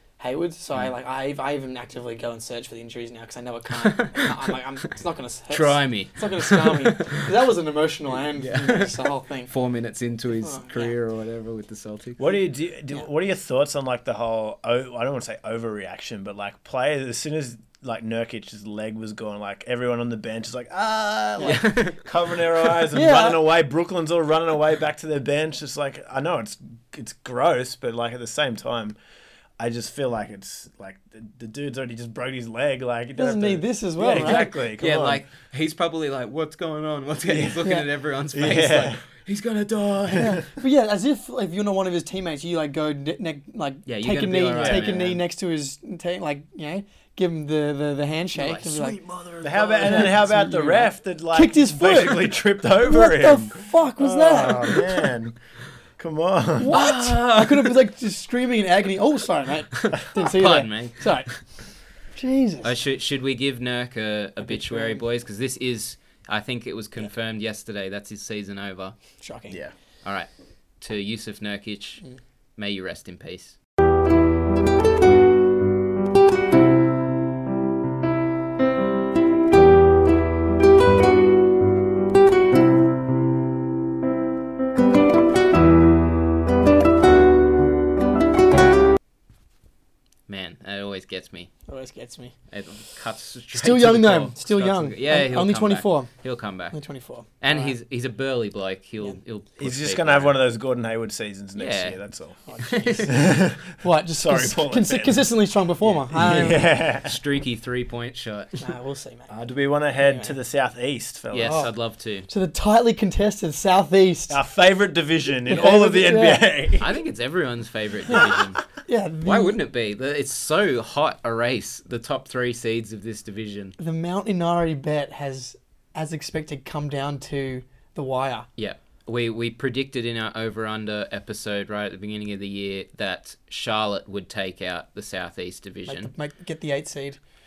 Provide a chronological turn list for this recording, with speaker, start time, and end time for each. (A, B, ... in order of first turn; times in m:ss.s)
0:00.2-0:09.5 A
0:03.8-0:04.3 B
0:05.5-0:07.3 B
0:08.4-0:09.0 B
0:09.5-0:12.2 B
0:10.4-0:11.0 A
0:12.2-0:29.0 C
0:21.4-0:22.0 B
0:22.9-0:23.4 A
0:29.6-0:35.2 C
0:33.2-0:34.5 A
0:34.1-0:40.4 B
0:37.3-0:37.6 C
0:38.3-0:39.0 C
0:40.1-0:40.4 C
0:40.2-0:49.0 A
0:43.9-0:45.2 B
0:44.5-0:44.9 C
0:48.4-0:50.1 B
0:49.4-0:55.4 C
0:49.8-0:54.9 A
0:56.0-0:56.8 C
0:56.6-1:01.3 A
0:56.7-0:57.8 B
0:59.8-1:01.4 B
1:02.2-1:02.7 A
1:02.6-1:09.0 B
1:04.4-1:05.0 A
1:09.2-1:09.6 A
1:10.0-1:10.3 B
1:10.8-1:12.0 B
1:12.6-1:13.6 B
1:30.3-1:31.5 B
1:31.7-1:32.3 A
1:32.5-1:36.8 B
1:33.5-1:36.1 A
1:36.7-1:37.8 A
1:37.4-1:40.4 B
1:39.6-1:42.4 C
1:41.6-1:42.0 B
1:42.5-1:46.7 A
1:42.6-1:43.1 B
1:43.0-1:45.3 C
1:46.1-1:47.2 C
1:46.3-1:48.7 B
1:48.6-1:49.3 A
1:49.3-1:51.7 C
1:50.0-1:50.4 A
1:51.3-1:52.3 B
1:51.4-1:51.7 A
1:52.3-1:54.4 A
1:54.3-1:57.0 C
1:55.5-1:56.5 A
1:56.8-1:58.6 B
1:58.1-1:59.6 A
1:59.2-2:03.8 B
2:03.8-2:08.5 A
2:08.6-2:16.1 B
2:15.9-2:17.2 A